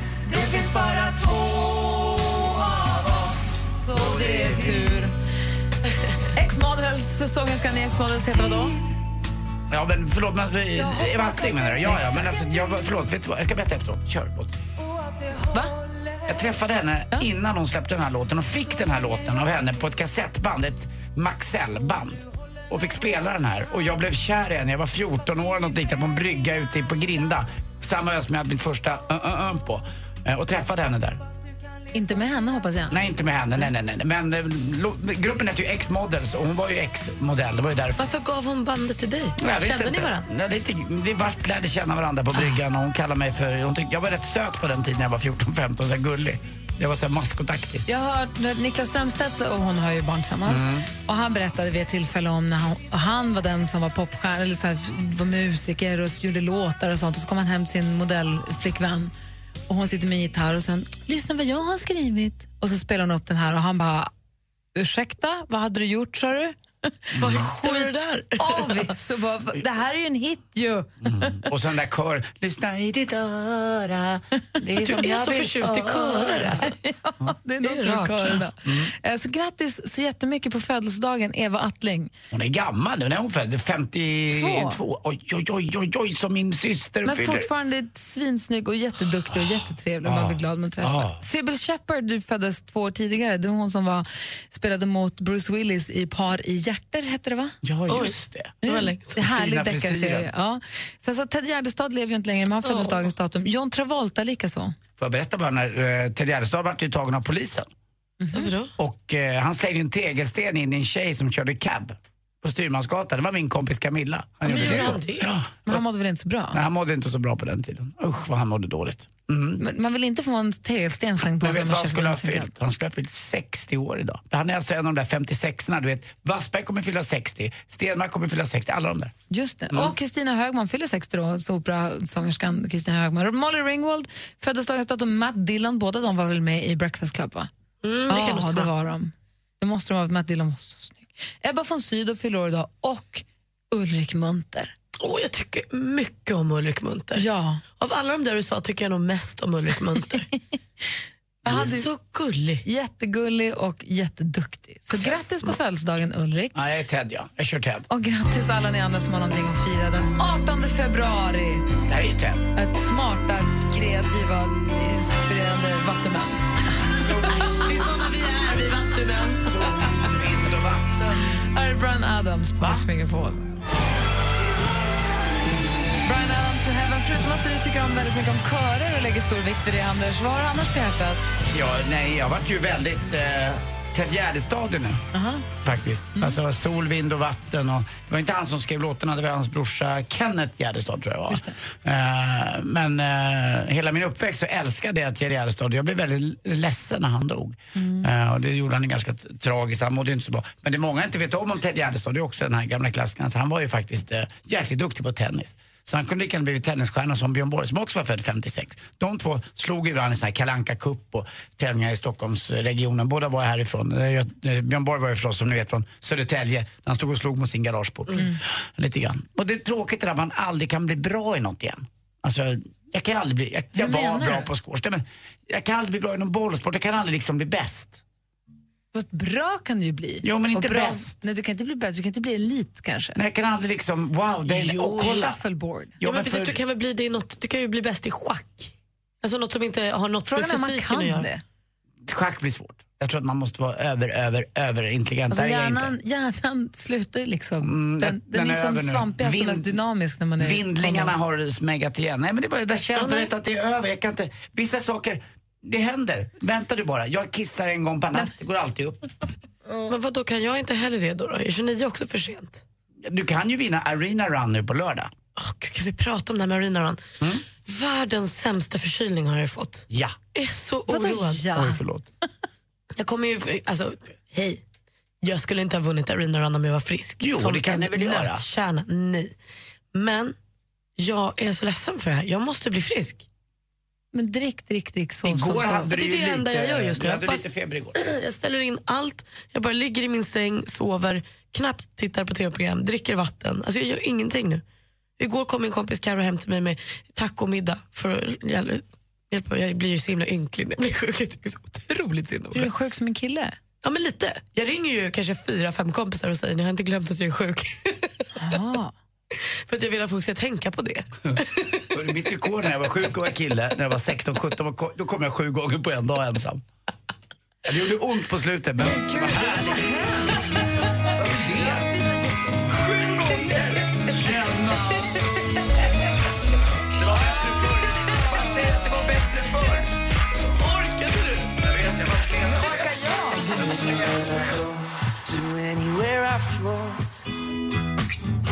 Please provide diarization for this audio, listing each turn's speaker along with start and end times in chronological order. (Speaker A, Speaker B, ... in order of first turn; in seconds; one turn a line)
Speaker A: 0.2-5.2
Speaker B: 4.0-4.8
Speaker A: 6.3-8.8
Speaker B: 9.7-14.5
Speaker A: 11.8-12.3
Speaker B: 16.3-31.2
Speaker A: 31.9-33.0
Speaker B: 32.9-38.0
Speaker C: 38.0-40.3
Speaker B: 39.4-47.9
Speaker A: 47.9-59.1
Speaker B: 50.5-50.9
Speaker A: 59.7-64.1
Speaker A: 64.8-66.6
Speaker B: 67.1-67.5
Speaker C: 67.2-68.9
Speaker A: 67.3-71.4
Speaker B: 71.0-76.6
Speaker C: 74.8-76.7
Speaker A: 76.6-82.1
Speaker C: 77.6-78.4
Speaker B: 78.7-78.9
Speaker B: 82.3-87.5
Speaker A: 84.3-84.8
Speaker A: 87.0-97.6
Speaker B: 89.3-91.2
Speaker B: 97.6-98.6
Speaker C: 97.9-99.2
Speaker A: 98.6-104.8
Speaker B: 99.2-100.3
Speaker C: 102.6-103.1
Speaker B: 105.0-107.7
Speaker A: 108.2-108.5
Speaker C: 108.3-108.7
Speaker B: 108.8-115.8
Speaker C: 114.4-115.3
Speaker A: 114.5-114.9
Speaker A: 115.7-116.6
Speaker B: 116.5-119.6
Speaker A: 119.6-122.5
Speaker B: 121.2-129.1
Speaker A: 129.3-137.5
Speaker C: 137.8-138.7
Speaker A: 138.1-144.7
Speaker C: 145.0-147.2
Speaker A: 147.2-147.6
Speaker C: 147.8-150.3
Speaker C: 151.4-152.6
Speaker B: 151.5-151.8
Speaker A: 151.5-151.9
Speaker A: 152.7-156.6
Speaker B: 154.9-155.2
Speaker B: 156.6-157.9
Speaker A: 157.9-161.7
Speaker B: 161.9-162.5
Speaker A: 162.6-167.0
Speaker B: 167.0-167.5
Speaker C: 167.1-169.6
Speaker B: 169.5-171.3
Speaker A: 171.4-173.5
Speaker B: 172.6-172.9
Speaker A: 176.1-181.3
Speaker B: 181.5-185.1
Speaker A: 185.1-185.5
Speaker B: 185.6-228.0
Speaker A: 191.3-191.6
Speaker A: 197.8-198.1
Speaker A: 218.2-218.4
Speaker A: 223.8-224.5
Speaker A: 228.9-233.2
Speaker B: 230.2-231.1
Speaker B: 233.2-235.4
Speaker A: 234.5-236.0
Speaker C: 234.8-235.2
Speaker B: 236.0-236.6
Speaker C: 236.0-241.3
Speaker A: 240.3-241.4
Speaker B: 242.0-245.9
Speaker A: 245.3-251.1
Speaker B: 247.6-249.8
Speaker B: 250.4-259.0
Speaker C: 253.0-253.3
Speaker C: 259.9-262.6
Speaker B: 263.0-265.1
Speaker C: 265.4-267.0
Speaker C: 267.6-271.5
Speaker B: 269.9-270.2
Speaker A: 270.9-271.8
Speaker B: 271.5-272.1
Speaker C: 273.0-274.6
Speaker C: 275.2-279.4
Speaker B: 277.2-278.4
Speaker C: 279.9-280.4
Speaker C: 281.0-283.2
Speaker A: 284.1-285.9
Speaker B: 285.2-288.0
Speaker C: 285.9-287.4
Speaker C: 288.0-294.6
Speaker C: 295.2-302.7
Speaker A: 302.5-303.6
Speaker C: 303.8-308.1
Speaker A: 308.4-308.9
Speaker C: 309.3-311.8
Speaker B: 311.9-316.6
Speaker B: 317.6-320.3
Speaker A: 318.8-320.5
Speaker B: 321.1-321.9
Speaker A: 321.5-322.4
Speaker C: 322.9-323.6
Speaker B: 323.3-325.2
Speaker B: 327.0-329.9
Speaker A: 327.1-328.6
Speaker C: 330.4-331.6
Speaker B: 331.6-333.0
Speaker A: 332.4-333.7
Speaker B: 333.5-334.5
Speaker C: 335.3-337.0